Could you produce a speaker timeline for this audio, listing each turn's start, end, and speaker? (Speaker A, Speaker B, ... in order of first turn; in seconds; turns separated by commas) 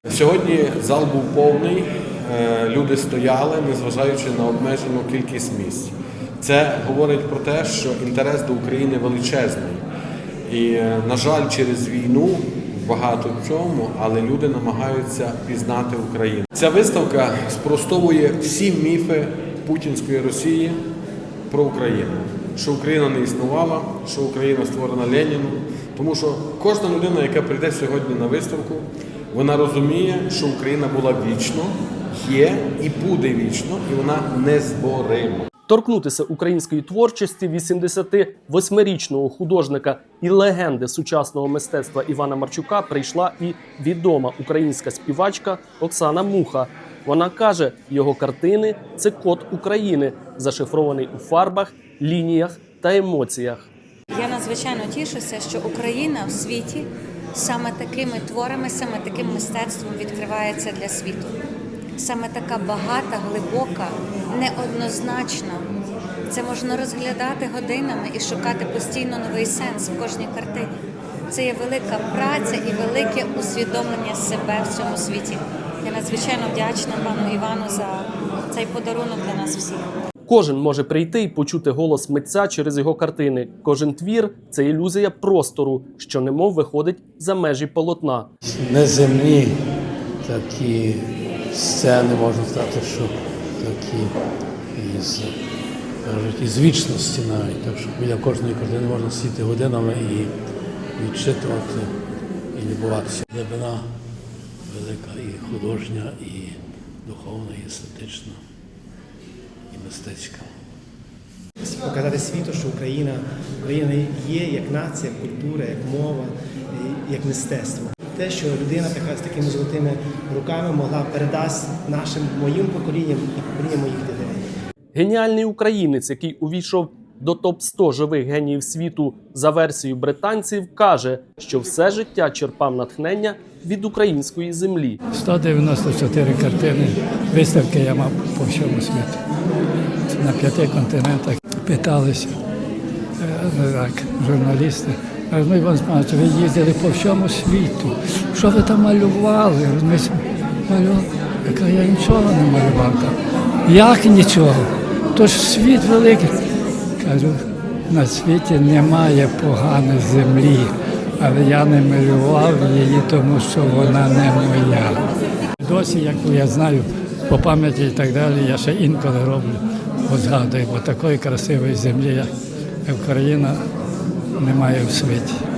Speaker A: 0.1-9.8, Speaker A: 10.5-20.8, Speaker A: 21.5-35.5, Speaker B: 35.7-53.7, Speaker C: 54.1-61.3, Speaker C: 62.0-65.7, Speaker C: 66.3-70.7, Speaker C: 71.3-79.8, Speaker B: 80.3-88.3, Speaker D: 88.4-89.6, Speaker D: 90.2-94.1, Speaker D: 94.7-95.3, Speaker D: 96.0-100.3, Speaker D: 101.0-101.9, Speaker D: 102.5-103.8, Speaker D: 104.7-108.4, Speaker D: 109.7-110.5, Speaker E: 111.6-124.4, Speaker B: 124.9-135.0, Speaker F: 135.1-139.2, Speaker F: 140.1-142.3, Speaker F: 143.2-156.3, Speaker F: 157.0-165.1, Speaker F: 165.6-172.3, Speaker F: 172.9-173.6, Speaker F: 174.4-175.4